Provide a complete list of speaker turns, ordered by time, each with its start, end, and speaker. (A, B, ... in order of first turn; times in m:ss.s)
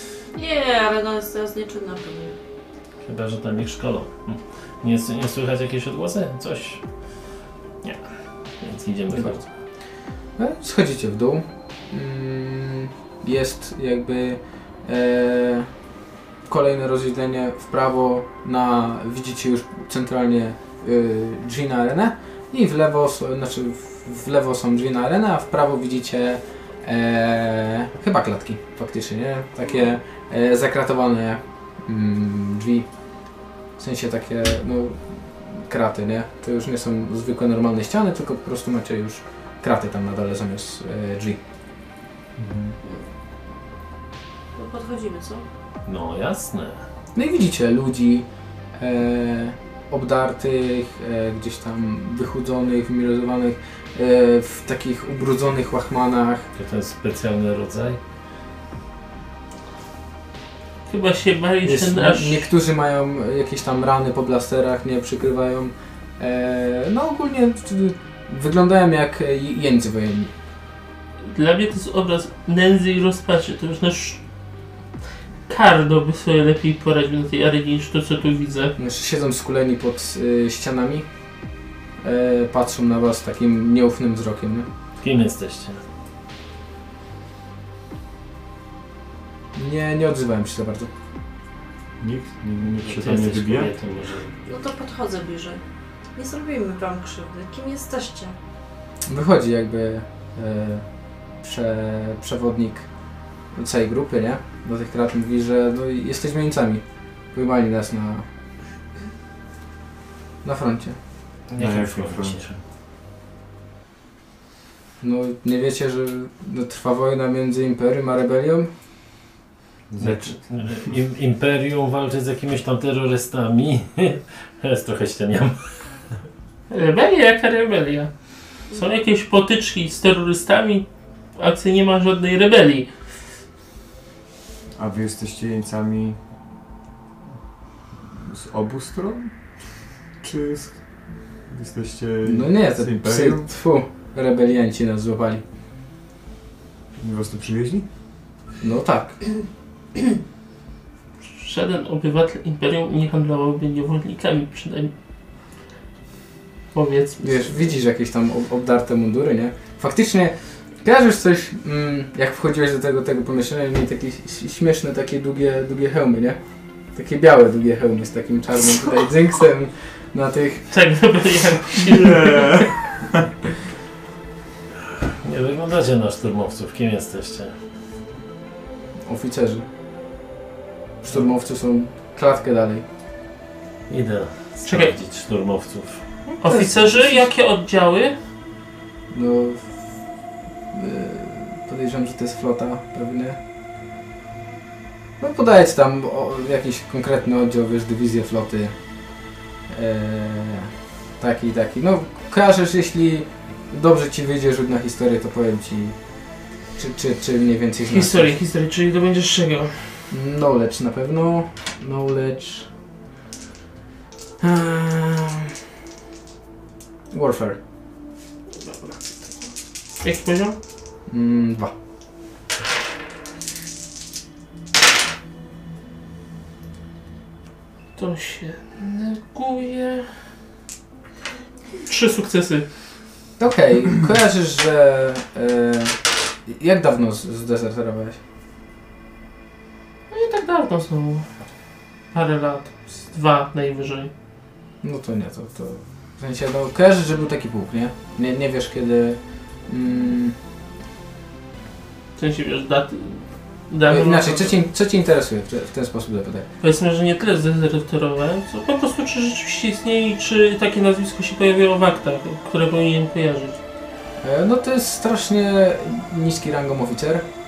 0:00.3-0:02.4 A
0:03.0-0:06.8 B
0:08.6-0:09.4 B
0:09.1-0:09.4 C
0:10.4-0:15.7 C
0:16.5-0:32.9 C
0:33.8-0:41.4 C
0:42.4-0:42.7 D
0:44.5-0:45.4 A
0:45.9-0:46.8 B
0:47.1-0:48.2 C
0:48.8-0:56.5 C
0:56.6-0:58.0 B
1:00.9-1:02.5 E
1:01.6-1:10.3 C
1:11.2-1:14.2 E
1:15.5-1:18.8 E
1:18.8-1:21.1 C
1:22.0-1:24.7 C
1:25.0-1:25.8 B
1:29.5-1:30.9 C
1:32.0-1:33.7 D
1:32.7-1:34.5 B
1:34.5-1:35.6 A
1:36.1-1:38.4 A
1:39.1-1:40.8 C
1:41.4-1:42.9 C
1:43.5-1:48.2 C
1:50.4-1:51.0 C
1:51.5-1:52.5 B
1:51.6-1:52.6 D
1:55.0-1:58.7 C
1:59.9-2:00.4 D
2:00.0-2:05.8 B
2:06.7-2:08.1 E
2:08.7-2:12.9 E
2:14.8-2:16.2 D
2:18.1-2:19.3 D
2:20.2-2:20.8 D
2:21.5-2:23.5 D
2:22.2-2:25.4 C
2:27.0-2:27.9 D
2:28.6-2:29.2 C
2:31.3-2:34.9 E
2:36.7-2:37.7 E
2:37.2-2:46.4 C
2:46.9-2:50.7 C
2:50.7-2:52.7 E
2:51.9-2:53.2 D
2:55.2-2:57.5 B
2:59.0-2:59.6 C
3:01.0-3:02.8 C
3:03.9-3:06.0 B
3:04.6-3:05.0 E
3:06.3-3:07.3 C
3:06.4-3:08.2 E
3:09.1-3:09.7 C
3:10.7-3:13.4 C
3:15.2-3:18.8 C
3:19.7-3:26.0 C
3:26.8-3:28.4 C
3:27.9-3:30.0 E
3:30.1-3:32.7 C
3:34.4-3:35.5 C
3:37.1-3:37.6 C
3:38.6-3:39.3 E
3:40.0-3:40.6 E
3:41.1-3:41.7 C
3:48.0-3:50.1 E
3:51.8-3:52.6 E
3:53.4-3:58.2 C
4:00.1-4:01.3 E
4:02.1-4:04.1 E
4:04.8-4:10.4 C
4:12.2-4:14.5 E
4:13.9-4:16.5 C
4:16.6-4:23.6 E
4:24.2-4:27.3 C